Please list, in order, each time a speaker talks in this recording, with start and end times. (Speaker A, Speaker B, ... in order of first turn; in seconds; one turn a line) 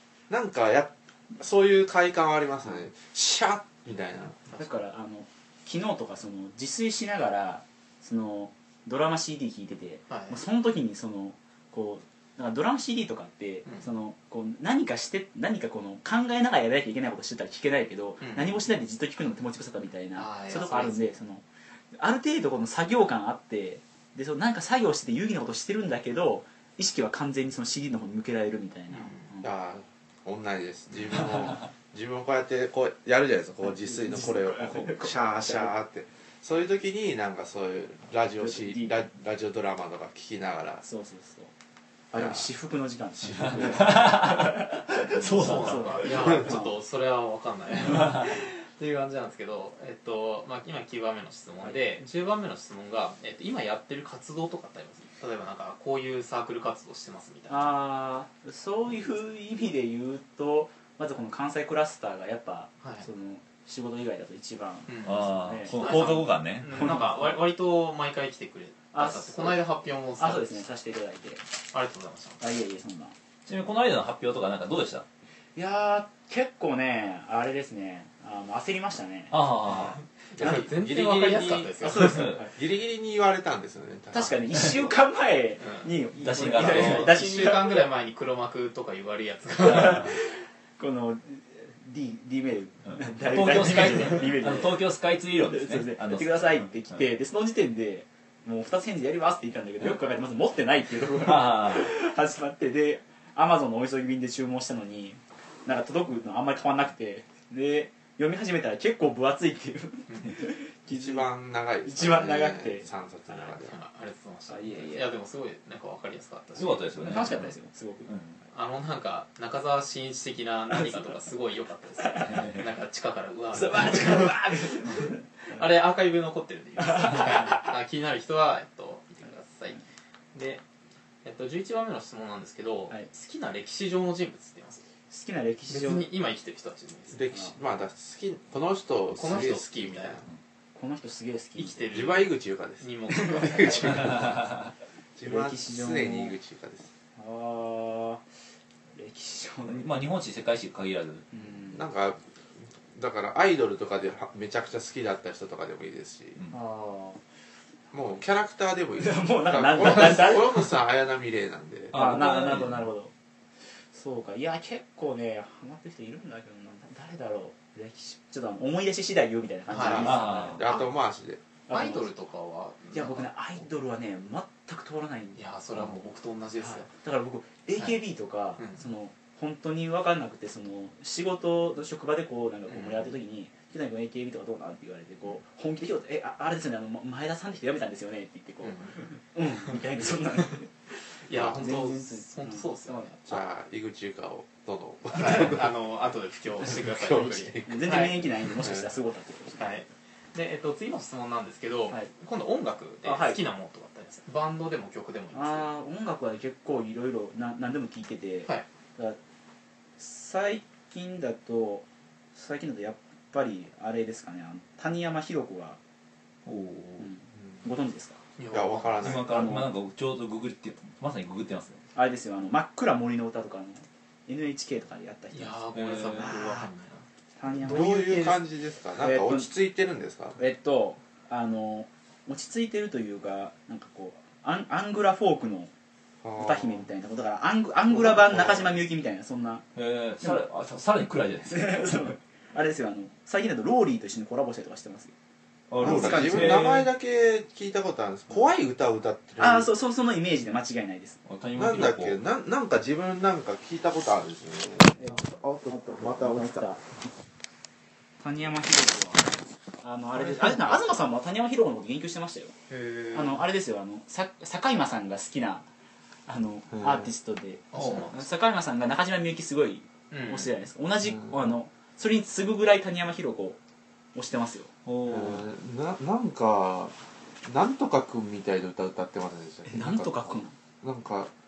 Speaker A: 0.3-4.4
Speaker B: 4.5-29.5
Speaker C: 10.1-10.4
Speaker C: 18.2-18.6
Speaker C: 20.1-21.0
Speaker C: 28.9-29.3
Speaker A: 29.4-40.8
Speaker B: 33.9-35.7
Speaker B: 38.4-39.0
Speaker B: 40.8-41.5
Speaker B: 42.1-46.7
Speaker A: 42.1-42.5
Speaker A: 43.2-44.0
Speaker D: 43.6-46.2
Speaker C: 45.3-57.8
Speaker B: 57.5-67.0
Speaker C: 64.9-70.6
Speaker D: 65.0-67.0
Speaker B: 68.9-69.6
Speaker B: 70.2-71.4
Speaker C: 71.7-72.4
Speaker B: 72.4-73.1
Speaker D: 73.5-75.0
Speaker B: 75.5-80.7
Speaker D: 79.3-80.0
Speaker C: 80.2-82.3
Speaker A: 80.3-81.7
Speaker B: 81.8-82.5
Speaker D: 81.8-82.4
Speaker A: 82.5-84.9
Speaker B: 84.1-87.9
Speaker C: 85.6-90.2
Speaker D: 86.2-87.2
Speaker B: 89.6-90.2
Speaker B: 90.8-94.8
Speaker D: 92.9-97.0
Speaker B: 95.5-111.3
Speaker D: 101.1-101.9
Speaker C: 110.1-110.3
Speaker A: 110.9-113.8
Speaker B: 111.8-112.8
Speaker C: 113.3-117.3
Speaker B: 114.5-115.1
Speaker D: 116.5-117.5
Speaker B: 117.0-118.1
Speaker D: 118.1-118.4
Speaker C: 118.5-129.8
Speaker B: 123.5-125.2
Speaker B: 127.1-127.4
Speaker C: 130.3-130.6
Speaker C: 131.2-134.8
Speaker B: 135.1-136.1
Speaker C: 135.7-137.2
Speaker A: 137.1-140.3
Speaker C: 139.1-140.2
Speaker B: 140.7-141.9
Speaker C: 141.6-144.3
Speaker A: 141.9-144.3
Speaker A: 145.2-146.9
Speaker B: 145.2-146.4
Speaker B: 147.2-148.2
Speaker B: 148.9-149.9
Speaker D: 149.7-151.2
Speaker B: 151.3-151.8
Speaker A: 151.7-156.4
Speaker B: 156.5-157.2
Speaker A: 157.9-161.9
Speaker B: 159.0-160.7
Speaker D: 161.9-162.9
Speaker B: 161.9-163.1
Speaker B: 163.9-170.8
Speaker C: 169.7-170.8
Speaker A: 169.8-171.4
Speaker D: 170.0-170.7
Speaker B: 171.7-172.1
Speaker C: 171.7-173.3
Speaker B: 172.9-175.4
Speaker C: 175.3-176.9
Speaker B: 176.6-190.7
Speaker C: 182.7-183.1
Speaker C: 188.6-189.0
Speaker C: 191.2-193.3
Speaker B: 191.3-193.1
Speaker A: 193.3-195.7
Speaker C: 195.1-198.5
Speaker A: 196.7-198.8
Speaker B: 197.7-199.8
Speaker C: 199.6-205.7
Speaker B: 203.0-203.4
Speaker B: 205.3-209.2
Speaker B: 210.0-215.8
Speaker D: 216.4-217.1
Speaker B: 217.0-218.2
Speaker C: 218.4-219.2
Speaker A: 218.5-219.3
Speaker D: 219.0-221.8
Speaker B: 219.1-219.7
Speaker B: 221.9-225.6
Speaker C: 225.3-227.0
Speaker D: 225.7-226.4
Speaker B: 226.2-226.6
Speaker B: 227.4-228.4
Speaker A: 227.5-230.4
Speaker B: 228.9-229.5
Speaker B: 230.4-235.7
Speaker A: 236.2-236.8
Speaker B: 236.4-239.6
Speaker A: 237.9-238.7
Speaker D: 239.7-242.1
Speaker B: 241.4-245.1
Speaker D: 245.7-246.9
Speaker B: 245.8-246.7
Speaker A: 245.8-249.7
Speaker B: 249.4-251.2
Speaker D: 251.2-252.2
Speaker A: 251.6-256.7
Speaker B: 255.0-256.9
Speaker B: 258.2-262.5
Speaker A: 260.1-260.9
Speaker C: 262.7-263.4
Speaker B: 263.1-265.6
Speaker B: 266.3-273.6
Speaker A: 266.7-267.1
Speaker C: 267.7-268.2
Speaker D: 267.7-268.0
Speaker C: 270.1-270.5
Speaker B: 274.1-274.7
Speaker D: 274.8-275.4
Speaker A: 275.0-281.3
Speaker B: 279.7-280.5